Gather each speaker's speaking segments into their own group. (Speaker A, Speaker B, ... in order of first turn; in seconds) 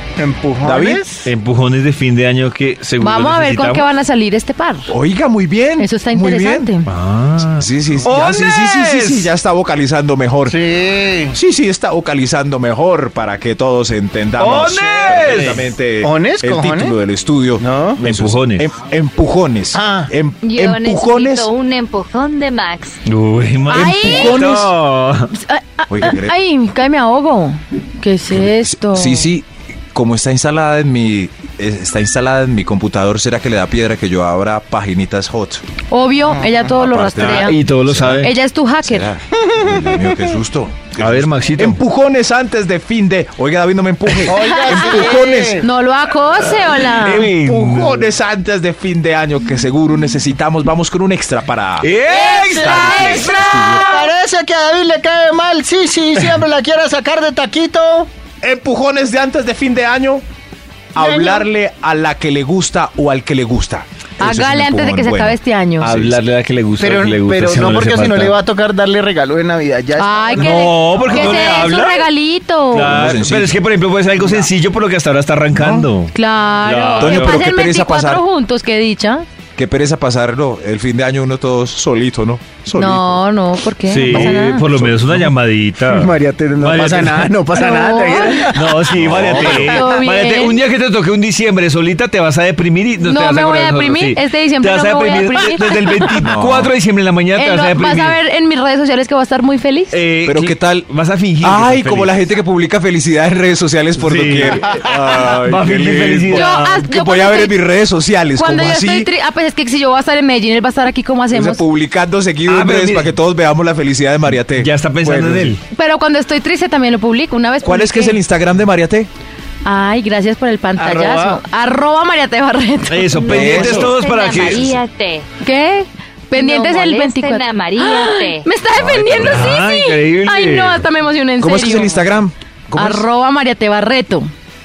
Speaker A: 0.2-1.3, 10.4-11.3, 14.7-17.0, 17.6-18.0, 19.7-20.1, 39.4-40.2, 44.2-45.7, 52.1-58.1, 61.0-61.5, 66.8-71.0, 85.9-89.5, 120.8-121.4
Speaker B: 0.6-1.0, 4.9-6.7, 7.6-10.6, 11.3-21.5, 23.7-24.7, 25.9-26.4, 28.3-35.6, 36.7-38.3, 38.8-45.6, 47.0-54.0, 58.4-60.2, 60.9-66.2, 71.1-71.3, 72.7-73.6, 75.5-75.9, 77.0-78.2, 79.5-83.2, 84.1-85.3, 89.0-89.8, 96.2-96.7, 100.2-109.1, 111.3-115.6, 117.6-119.1, 123.3-124.7, 128.7-129.5, 131.4-133.1
Speaker C: 1.2-3.9, 6.8-9.3, 14.4-15.7, 18.0-18.7, 23.1-25.3, 37.1-38.3, 41.0-41.8, 46.9-48.1, 51.8-54.0, 65.8-68.3, 70.3-72.0, 72.7-77.4, 83.9-87.4, 88.4-98.2, 99.9-102.2, 104.0-106.8, 112.5-113.1, 114.5-115.6, 122.9-124.8, 129.1-130.8
Speaker D: 3.0-4.9, 5.8-6.9, 23.7-24.5, 25.4-29.3, 35.9-37.6, 38.2-39.1, 44.4-47.3, 52.7-53.4, 64.2-66.0, 70.0-73.0, 76.1-79.2, 82.7-84.7, 87.5-88.6, 89.4-90.6, 93.0-96.3, 97.3-100.0, 106.3-107.6, 108.4-111.6, 115.7-118.2, 119.6-123.2, 125.4-132.0, 132.7-134.3
Speaker E: 20.4-23.0, 123.1-125.3, 126.3-128.5